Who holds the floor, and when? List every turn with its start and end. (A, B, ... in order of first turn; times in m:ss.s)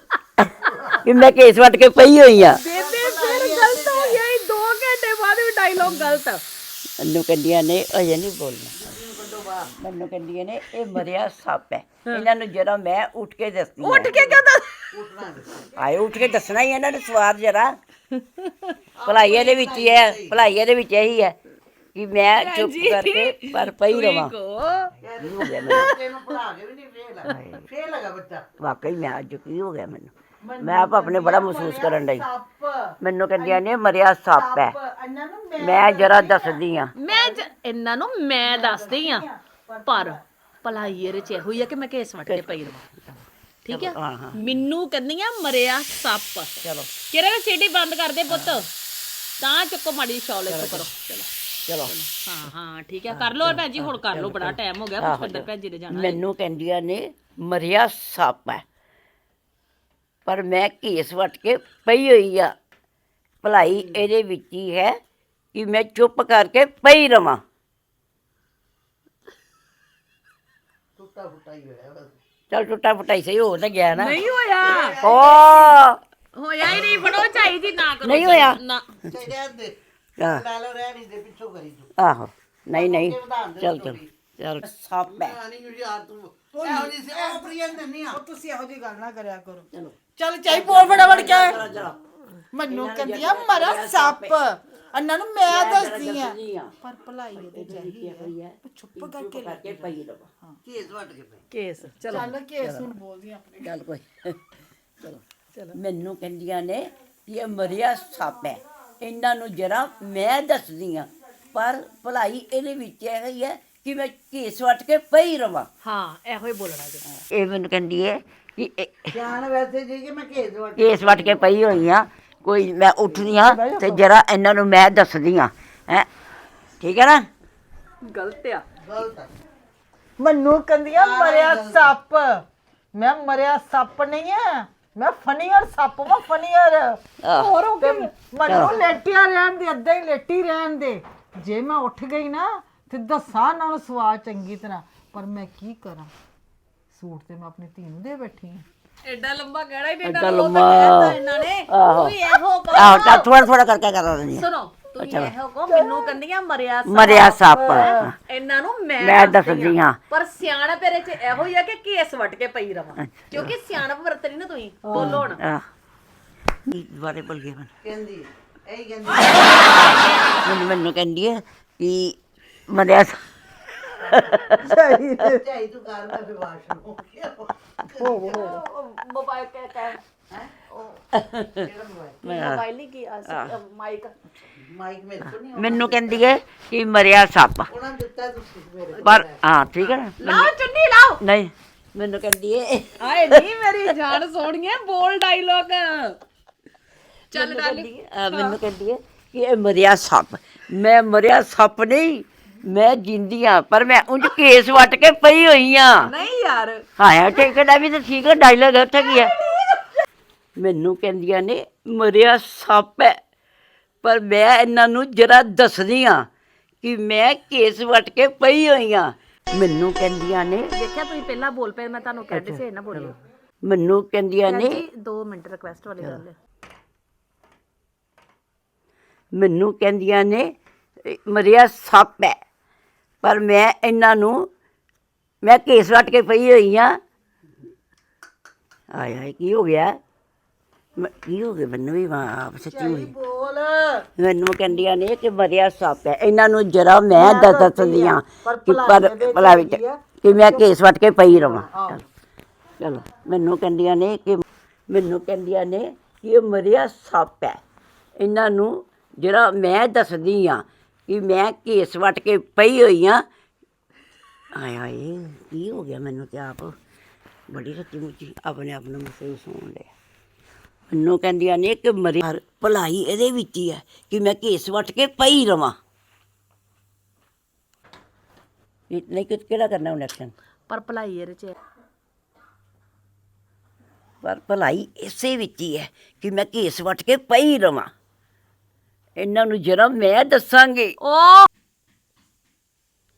0:00.6-0:01.1 A
0:01.0-0:02.6 B
0:02.5-0:06.4 C
0:02.7-0:04.2 A
0:07.0-0:08.8 B
0:08.8-0:09.7 A
0:09.8-0:14.1 B
0:13.8-0:14.9 C
0:14.1-0:16.0 A
0:15.8-0:17.8 B
0:18.2-0:18.7 C
0:19.0-0:20.4 A
0:19.0-0:21.4 B
0:21.9-0:24.3 B
0:22.3-0:26.2 C
0:25.0-0:28.5 A
0:25.2-0:25.9 B
0:27.3-0:27.6 B
0:28.6-0:32.3 B
0:30.4-0:33.6 D
0:33.0-0:34.8 B
0:34.3-0:37.4 D
0:35.6-0:36.9 B
0:36.9-0:39.3 C
0:38.4-0:40.2 D
0:39.8-0:42.8 C
0:42.3-0:44.4 B
0:43.6-0:46.5 C
0:46.6-0:46.9 B
0:47.1-0:48.7 C
0:49.4-0:51.3 C
0:50.4-0:50.9 B
0:51.7-0:51.9 B
0:51.9-0:56.2 C
0:53.1-0:58.6 B
1:00.2-1:02.5 B
1:03.4-1:05.0 B
1:03.7-1:04.0 A
1:05.5-1:07.4 B
1:11.0-1:12.1 A
1:12.5-1:14.2 B
1:13.9-1:15.0 C
1:14.6-1:15.7 A
1:15.0-1:16.0 B
1:16.3-1:18.9 C
1:18.0-1:18.6 B
1:19.1-1:21.9 A
1:20.2-1:20.4 B
1:22.0-1:25.4 B
1:22.7-1:24.1 A
1:25.1-1:28.2 A
1:26.5-1:27.5 D
1:28.1-1:31.6 D
1:30.5-1:32.0 B
1:32.5-1:40.6 D
1:32.7-1:34.4 B
1:35.4-1:36.7 B
1:37.3-1:40.3 B
1:40.6-1:41.4 A
1:41.5-1:42.3 C
1:42.1-1:43.7 D
1:42.6-1:42.9 B
1:43.6-1:44.4 B
1:45.7-1:55.7 B
1:55.8-1:57.0 C
1:57.3-1:59.2 B
1:59.1-2:01.6 A
2:00.8-2:06.1 B
2:03.2-2:04.0 D
2:06.8-2:07.3 B
2:08.1-2:08.6 C
2:08.8-2:09.3 A
2:10.2-2:12.4 D
2:10.9-2:11.9 A
2:12.9-2:17.0 D
2:17.2-2:17.5 B
2:17.3-2:18.1 C
2:17.8-2:26.1 D
2:18.4-2:18.8 B
2:26.9-2:28.6 D
2:29.0-2:33.4 C
2:30.0-2:32.1 B
2:32.7-2:34.4 B
2:34.3-2:45.4 C
2:35.0-2:35.3 B
2:35.7-2:36.1 D
2:36.8-2:38.1 B
2:37.5-2:38.0 D
2:39.0-2:40.0 B
2:43.0-2:43.5 B
2:44.8-2:45.2 D
2:44.9-2:45.6 B
2:46.6-2:47.7 B
2:47.8-2:49.8 A
2:49.7-2:52.2 B
2:52.7-2:53.2 B
2:54.0-2:58.5 A
2:54.1-2:54.7 B
2:54.6-2:55.4 D
2:58.0-2:58.6 D
2:58.3-3:00.0 C
3:00.7-3:01.0 C
3:01.1-3:01.6 B
3:01.6-3:02.2 A
3:02.2-3:04.1 C
3:02.2-3:02.6 B
3:03.2-3:03.5 B
3:04.6-3:06.3 A
3:05.5-3:07.7 B
3:07.7-3:09.4 A
3:09.0-3:10.5 B
3:09.8-3:11.2 C
3:11.2-3:13.4 B
3:13.0-3:16.2 C
3:17.3-3:18.6 C
3:17.3-3:26.1 B
3:26.0-3:26.8 C
3:27.0-3:29.3 B
3:29.1-3:29.8 C
3:30.6-3:33.2 B
3:34.0-3:36.2 B
3:36.8-3:40.7 B
3:40.7-3:43.2 C
3:42.3-3:44.8 B
3:44.4-3:46.3 C
3:49.3-3:50.5 B
3:51.0-3:52.4 B
3:53.2-3:54.5 B
3:55.4-3:57.0 B
3:58.9-4:00.0 B
4:01.0-4:03.1 B
4:02.6-4:04.1 D
4:04.2-4:12.0 B
4:07.1-4:10.7 D
4:11.2-4:12.0 D
4:12.8-4:17.6 B
4:18.2-4:23.2 B
4:24.5-4:26.7 B
4:27.5-4:29.9 B
4:30.9-4:35.8 B
4:38.9-4:40.3 B
4:40.7-4:41.6 C
4:44.2-4:47.9 B
4:49.2-4:51.0 B
4:51.0-4:51.5 C